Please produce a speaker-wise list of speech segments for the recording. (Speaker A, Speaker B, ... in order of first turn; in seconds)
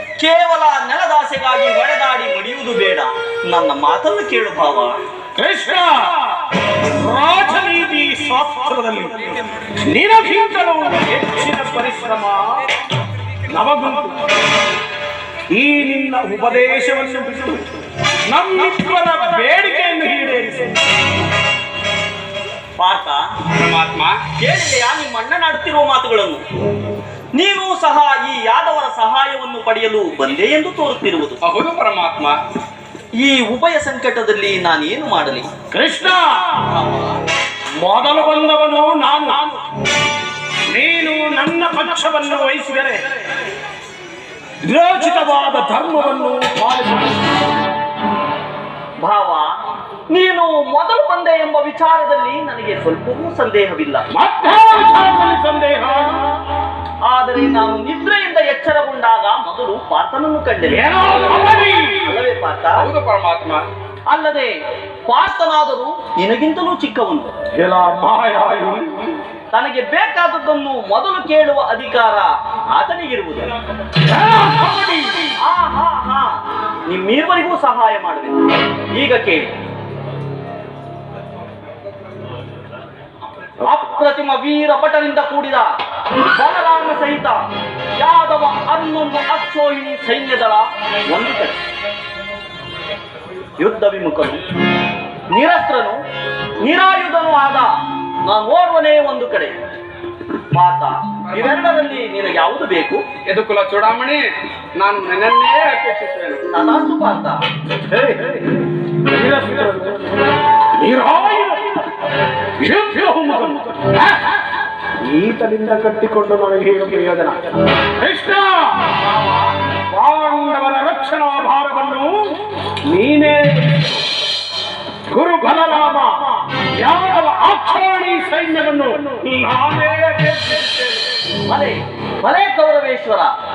Speaker A: 0.2-4.9, 22.8-23.2, 24.4-26.4, 27.4-31.4, 33.2-35.5, 36.7-37.2, 49.0-49.5, 50.1-54.0, 57.1-60.9, 62.0-62.8, 64.1-64.5, 65.1-67.3, 69.5-73.5, 75.4-76.3, 76.9-79.4, 83.6-87.4, 88.0-91.6, 93.6-94.4, 95.3-96.0, 96.6-97.7, 98.3-99.5, 100.5-103.0, 106.5-107.4, 131.5-133.3
Speaker B: 5.4-6.2, 6.8-12.6, 13.5-14.2, 15.5-17.7, 18.3-20.8, 35.7-36.6, 37.8-39.6, 40.7-43.0, 44.6-47.5, 54.1-56.3, 60.6-62.1, 67.6-69.0, 74.1-75.3, 107.9-108.3, 109.1-110.1, 110.7-111.8, 112.6-114.4, 115.0-118.9, 119.7-124.0, 125.1-130.9
Speaker C: 23.6-24.2, 31.4-32.4, 62.8-63.6, 101.3-101.7, 103.3-104.2, 104.8-106.5